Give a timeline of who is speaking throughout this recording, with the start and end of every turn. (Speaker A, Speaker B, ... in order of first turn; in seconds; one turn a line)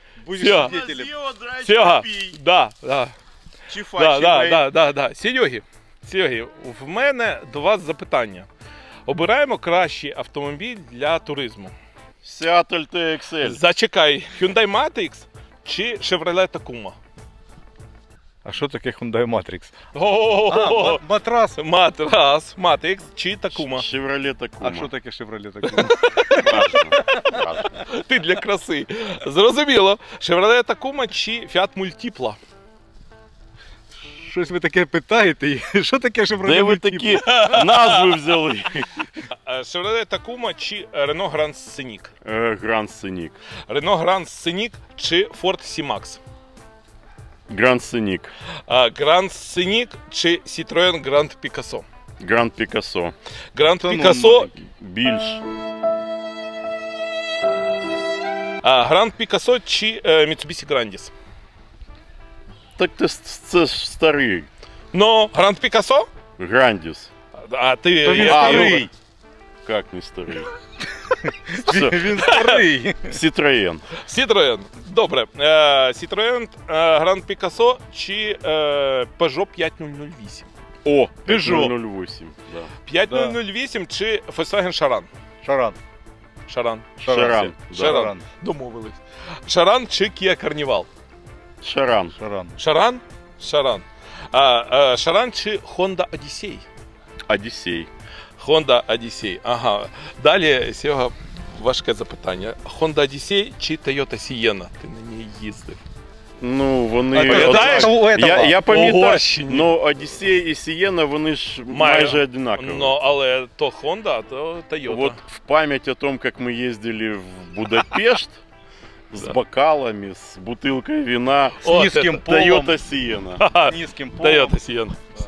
Speaker A: 0.2-1.1
Speaker B: 0.3-0.8
Speaker C: 0.4-2.4
Speaker B: 1.6-3.1
Speaker C: 3.7-4.7
Speaker B: 3.9-8.5
Speaker B: 9.1-11.7
Speaker C: 12.2-13.6
Speaker B: 13.4-17.0
Speaker A: 18.4-19.7
Speaker B: 19.9-21.0
Speaker A: 20.5-21.6
Speaker B: 21.6-23.9
Speaker C: 23.6-24.9
Speaker A: 24.6-27.4
Speaker B: 25.7-26.3
Speaker C: 26.4-27.7
Speaker B: 27.7-32.4
Speaker A: 34.2-37.4
Speaker C: 36.4-39.0
Speaker B: 37.2-38.0
Speaker B: 39.3-42.1
Speaker C: 42.2-43.4
Speaker B: 43.7-46.2
Speaker C: 47.5-48.3
Speaker B: 48.7-51.9
Speaker C: 52.2-53.1
Speaker B: 53.5-54.5
Speaker A: 53.8-54.5
Speaker C: 54.0-55.4
Speaker B: 58.6-61.1
Speaker C: 62.8-64.5
Speaker B: 64.9-66.1
Speaker C: 66.4-67.1
Speaker B: 67.3-68.9
Speaker A: 68.0-68.9
Speaker C: 68.2-68.9
Speaker C: 69.6-70.5
Speaker A: 71.1-73.2
Speaker C: 71.6-72.1
Speaker B: 72.2-72.6
Speaker C: 73.1-73.8
Speaker B: 73.9-80.5
Speaker C: 80.8-82.7
Speaker A: 81.2-81.7
Speaker B: 82.8-85.1
Speaker A: 83.1-83.4
Speaker A: 85.4-85.8
Speaker B: 86.5-86.9
Speaker A: 87.0-88.2
Speaker C: 87.0-88.1
Speaker B: 87.7-90.9
Speaker C: 91.6-92.1
Speaker A: 92.2-92.5
Speaker B: 92.6-96.6
Speaker C: 97.3-97.9
Speaker B: 98.4-105.8
Speaker C: 106.4-113.0
Speaker B: 107.1-109.7
Speaker A: 107.2-108.6
Speaker B: 111.7-115.2
Speaker C: 114.8-118.4
Speaker C: 119.1-121.6
Speaker B: 121.6-122.2
Speaker A: 121.6-122.8
Speaker C: 122.2-123.4
Speaker B: 123.4-125.0
Speaker A: 123.6-124.5